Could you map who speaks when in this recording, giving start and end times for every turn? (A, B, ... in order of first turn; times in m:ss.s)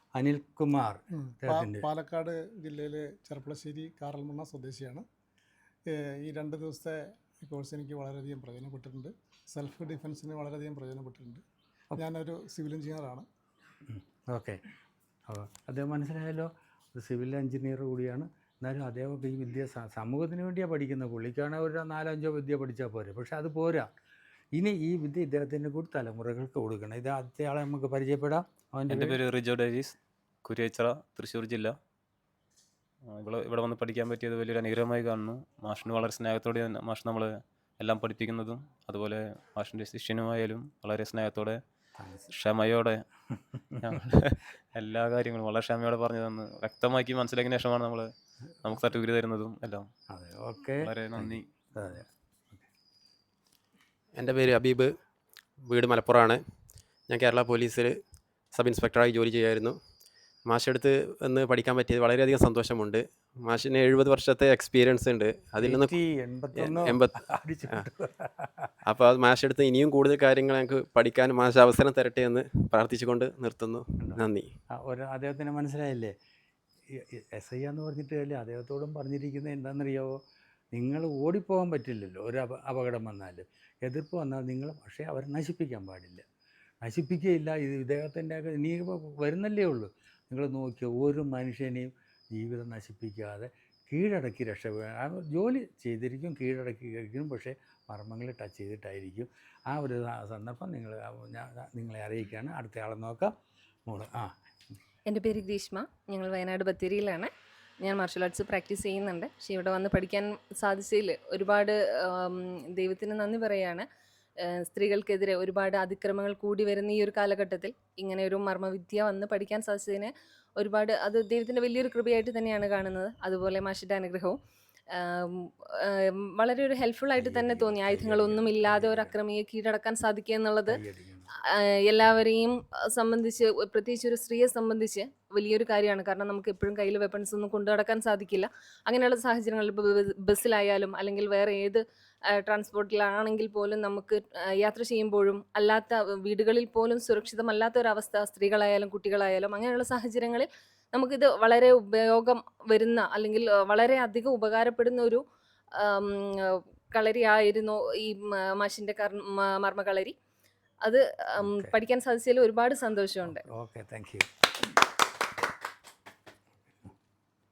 0:00.2-0:01.9 A
0:01.2-0:05.0 B
0:05.9-0:11.4 B
0:12.0-0:13.3 B
0:13.9-0:14.6 A
0:15.3-0:23.9 A
0:24.6-0:29.2 A
0:28.9-0:31.8 C
0:33.1-0:41.6 C
0:42.0-0:42.3 A
0:42.3-0:43.0 C
0:43.3-0:43.8 A
0:43.8-0:48.1 C
0:48.6-0:49.9 C
0:50.1-0:52.7 A
0:50.8-0:51.4 C
0:54.2-0:54.9 D
0:55.6-0:58.0 D
0:58.5-0:59.8 D
1:00.4-1:06.0 D
1:05.6-1:08.8 A
1:06.5-1:07.2 D
1:08.9-1:14.5 D
1:14.8-1:16.1 A
1:17.0-1:20.2 A
1:20.7-1:26.2 A
1:26.8-1:43.3 A
1:43.9-1:44.3 A
1:45.1-1:53.8 E
1:54.4-2:04.4 E
2:04.9-2:10.8 E
2:07.2-2:09.2 A
2:10.7-2:11.3 A
2:11.5-2:21.8 E
2:22.3-2:35.2 E
2:35.8-2:40.1 E
2:40.8-2:43.4 E
2:41.4-2:41.7 A
2:43.3-2:44.3 A